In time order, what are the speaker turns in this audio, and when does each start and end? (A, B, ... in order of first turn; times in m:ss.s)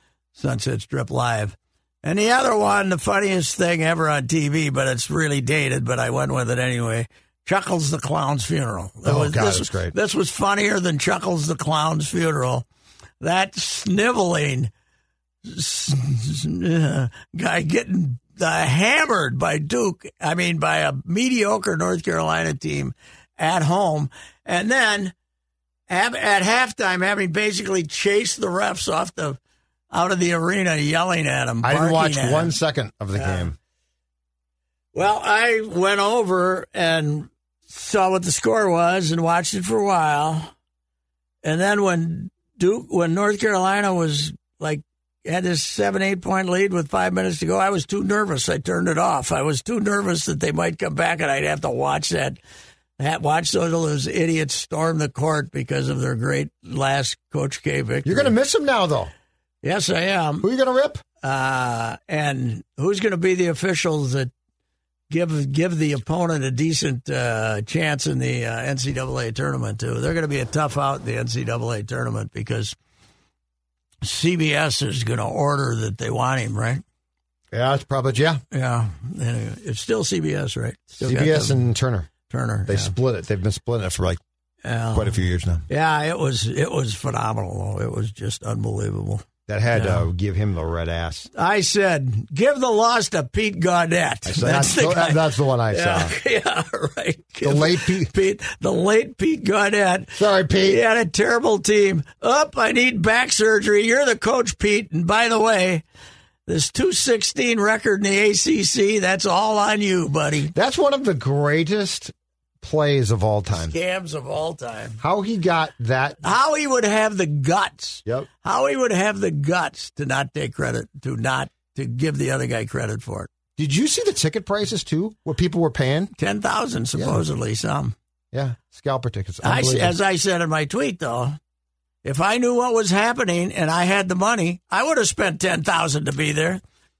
0:00.4-0:12.6 A
0:09.0-0:09.9 B
0:13.2-0:14.7 A
0:15.4-0:25.1 A
0:25.9-0:29.4 A
0:29.9-0:32.5 A
0:31.6-0:33.6 B
0:33.1-0:33.5 A
0:34.9-0:40.5 A
0:41.4-0:52.4 A
0:53.0-0:58.3 A
0:58.0-0:59.1 B
0:59.6-1:00.5 A
1:00.4-1:01.0 B
1:01.2-1:04.3 A
1:05.1-1:12.7 A
1:14.0-1:16.8 A
1:17.5-1:18.4 B
1:18.5-1:21.7 A
1:21.0-1:22.1 B
1:22.3-1:22.9 A
1:22.7-1:24.2 B
1:24.6-1:30.0 A
1:24.9-1:25.6 B
1:29.5-1:31.3 B
1:31.3-1:45.8 A
1:34.2-1:36.1 B
1:37.4-1:38.1 B
1:40.2-1:40.8 B
1:46.5-1:50.5 A
1:50.5-1:53.7 B
1:53.6-1:55.0 A
1:55.0-1:56.2 B
1:56.2-2:03.3 A
2:03.6-2:06.1 B
2:06.2-2:07.9 A
2:08.3-2:10.0 B
2:09.4-2:11.4 A
2:12.0-2:16.6 A